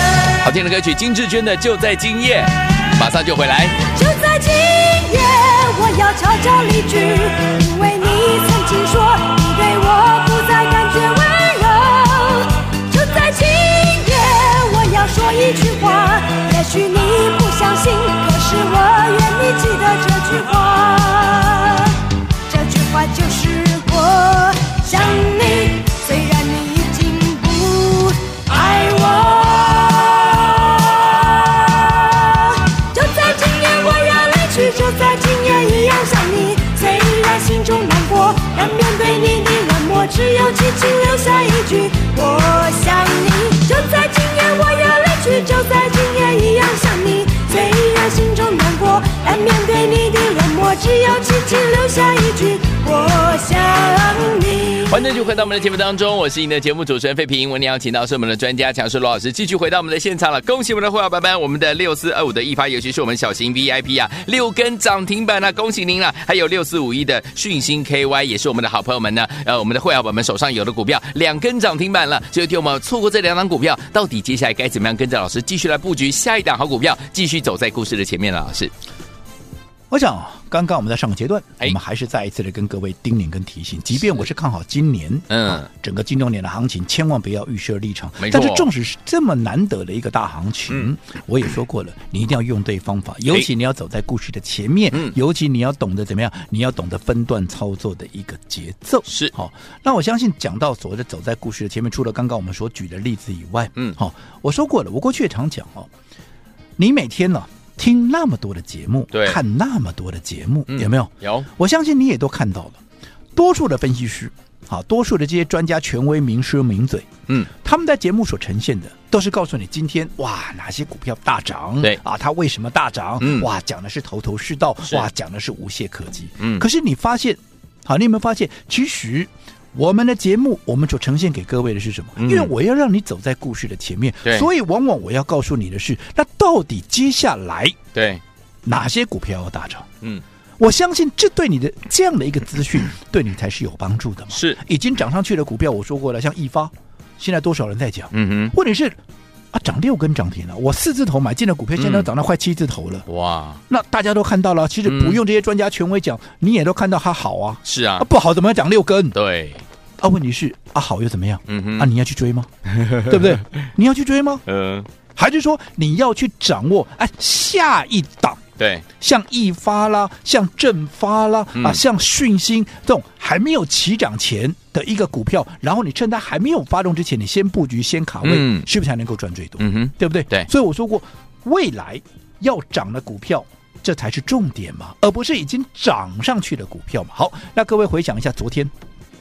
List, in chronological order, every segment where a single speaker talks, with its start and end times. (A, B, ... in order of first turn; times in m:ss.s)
0:00.4-0:03.8 A
0:03.9-0:55.0 B
0:54.8-1:18.7 A
1:19.9-1:45.9 C
1:25.3-1:25.7 A
1:28.2-1:28.7 A
1:39.0-1:39.3 A
1:46.8-1:52.8 C
1:49.1-1:49.4 A
1:50.7-1:51.5 A
1:53.4-2:17.8 C
2:03.2-2:03.5 A
2:06.4-2:06.6 A
2:12.2-2:12.5 A
2:17.9-2:18.2 A
2:18.6-2:19.9 C
2:20.6-2:29.0 C
2:24.3-2:24.6 A
2:28.1-2:28.5 A
2:29.5-2:33.0 C
2:31.8-2:32.1 A
2:33.1-2:33.6 A
2:33.7-2:39.2 C
2:34.8-2:35.2 A
2:37.6-2:38.1 A
2:39.1-2:39.6 A
2:40.0-2:44.4 C
2:41.5-2:41.9 A
2:42.7-2:43.4 A
2:44.5-2:44.9 A
2:45.1-2:48.4 C
2:48.6-2:48.8 A
2:49.0-3:08.7 C
2:51.5-2:51.8 A
2:58.2-2:58.7 A
2:59.6-3:00.5 A